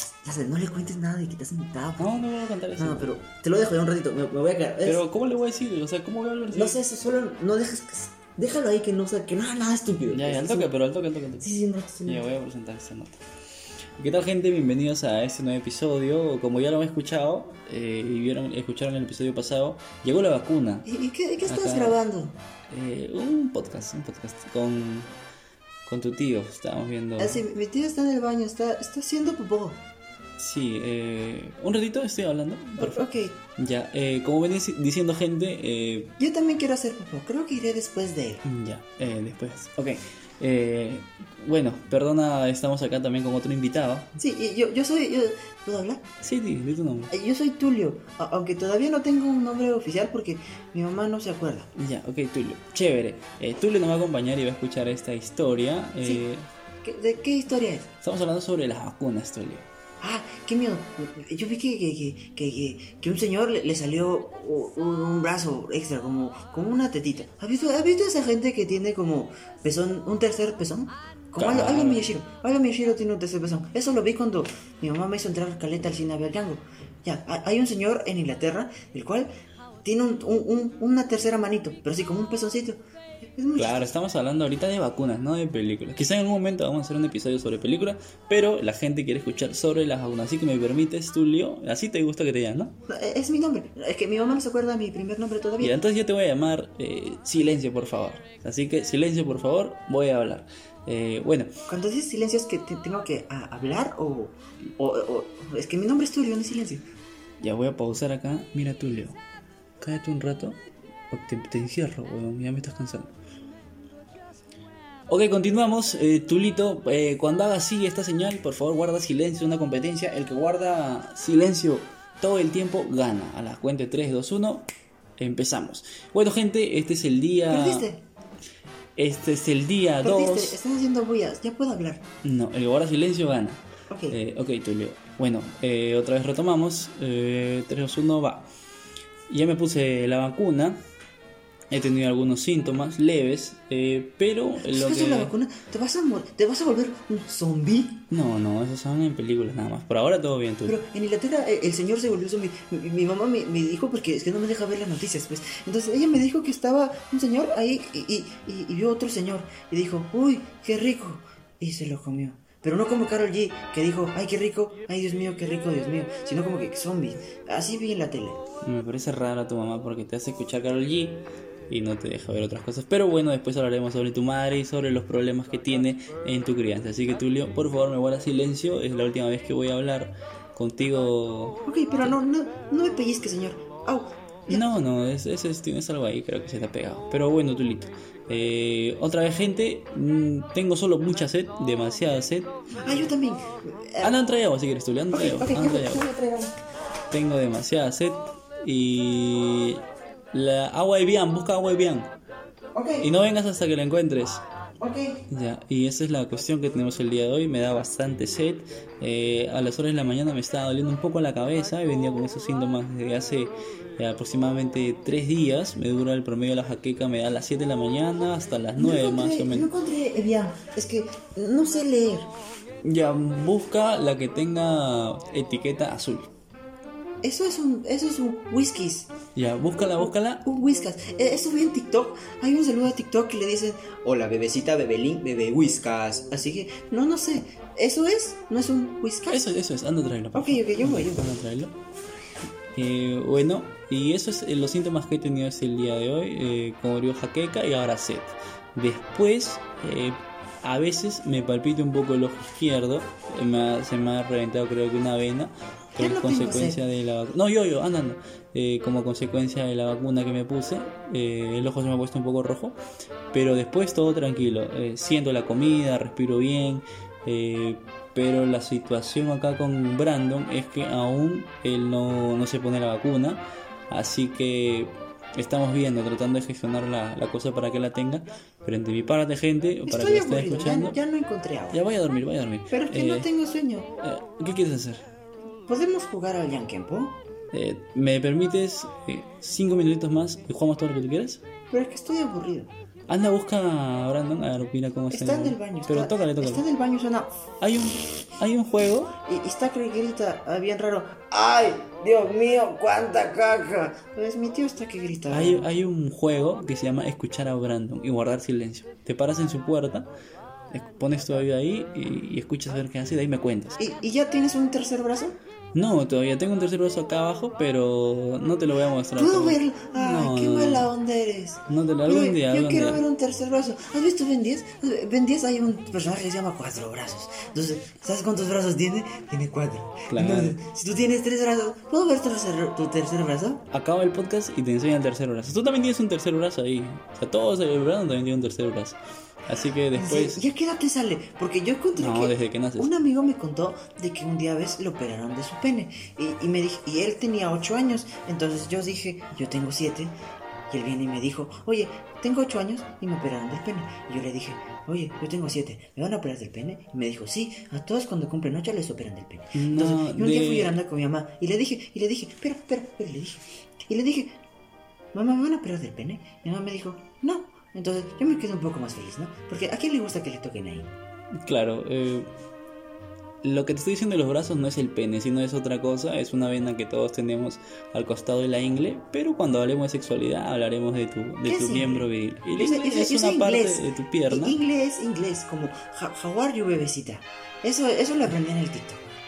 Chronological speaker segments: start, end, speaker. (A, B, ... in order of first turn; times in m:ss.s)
0:00.2-0:02.2 A
0:02.0-0:03.2 B
0:02.8-0:05.0 A
0:04.8-0:06.8 B
0:06.5-0:10.7 A
0:10.1-0:11.5 B
0:11.4-0:12.3 A
0:12.0-0:13.2 B
0:14.0-0:20.9 B
0:20.8-0:22.4 A
0:21.5-0:22.0 B
0:22.7-0:25.1 B
0:25.8-0:27.4 B
0:27.2-0:29.8 A
0:30.4-0:33.0 B
0:32.8-0:33.4 A
0:33.6-0:36.1 B
0:36.2-0:38.4 A
0:38.4-0:44.1 B
0:44.2-0:46.0 A
0:46.2-0:47.1 B
0:47.1-0:51.7 A
0:51.7-0:56.5 B
0:56.8-0:57.9 A
0:58.0-0:59.6 B
1:00.0-1:19.3 A
1:11.4-1:12.1 B
1:19.8-1:23.9 A
1:23.6-1:32.7 B
1:32.9-1:35.7 A
1:35.6-1:41.5 B
1:41.7-1:46.8 A
1:47.4-1:49.2 B
1:49.8-1:50.6 B
1:51.1-1:53.1 B
1:55.1-2:07.9 B
2:07.5-2:08.0 A
2:09.0-2:10.6 B
2:10.0-2:12.0 A
2:12.2-2:18.5 B
2:13.9-2:14.2 A
2:19.3-2:20.8 B
2:21.7-2:25.3 B
2:24.6-2:28.0 A
2:28.1-2:30.8 B
2:30.6-2:48.4 A
2:48.6-3:01.6 B
3:01.6-3:04.7 A
3:04.5-3:12.5 B
3:12.8-3:14.1 A
3:14.0-3:16.0 B
3:15.1-3:16.5 A
3:17.1-3:22.1 B
3:22.7-3:23.0 A
3:23.0-3:24.4 B
3:24.8-3:25.2 A
3:25.3-3:39.7 B
3:38.8-3:42.3 A
3:42.8-3:46.3 B
3:47.2-3:49.1 A
3:49.3-3:50.4 B
3:49.8-3:59.5 A
3:59.3-4:01.7 B
4:00.3-4:01.3 A
4:02.7-4:22.8 B
4:15.9-4:16.8 A
4:23.3-4:41.0 B
4:39.9-4:41.8 A
4:41.7-4:43.3 B
4:42.7-4:43.9 A
4:44.0-4:45.0 B
4:45.7-4:47.2 A
4:47.5-4:51.4 B
4:51.7-4:52.7 A
4:53.1-4:56.6 B
4:55.1-4:57.3 A
4:57.6-4:59.1 B
4:59.2-5:05.6 A
5:05.3-5:10.1 B
5:10.7-5:13.8 B
5:13.8-5:15.4 A
5:15.7-5:20.9 B
5:19.1-5:33.6 A
5:21.7-5:23.0 B
5:30.1-5:30.6 B
5:33.7-5:40.4 B
5:39.9-5:50.1 A
5:42.0-5:42.9 B
5:50.7-6:04.4 A
5:59.5-6:00.8 B
6:05.1-6:10.9 A
6:11.4-6:12.3 B
6:13.4-6:24.6 B
6:21.4-6:29.1 A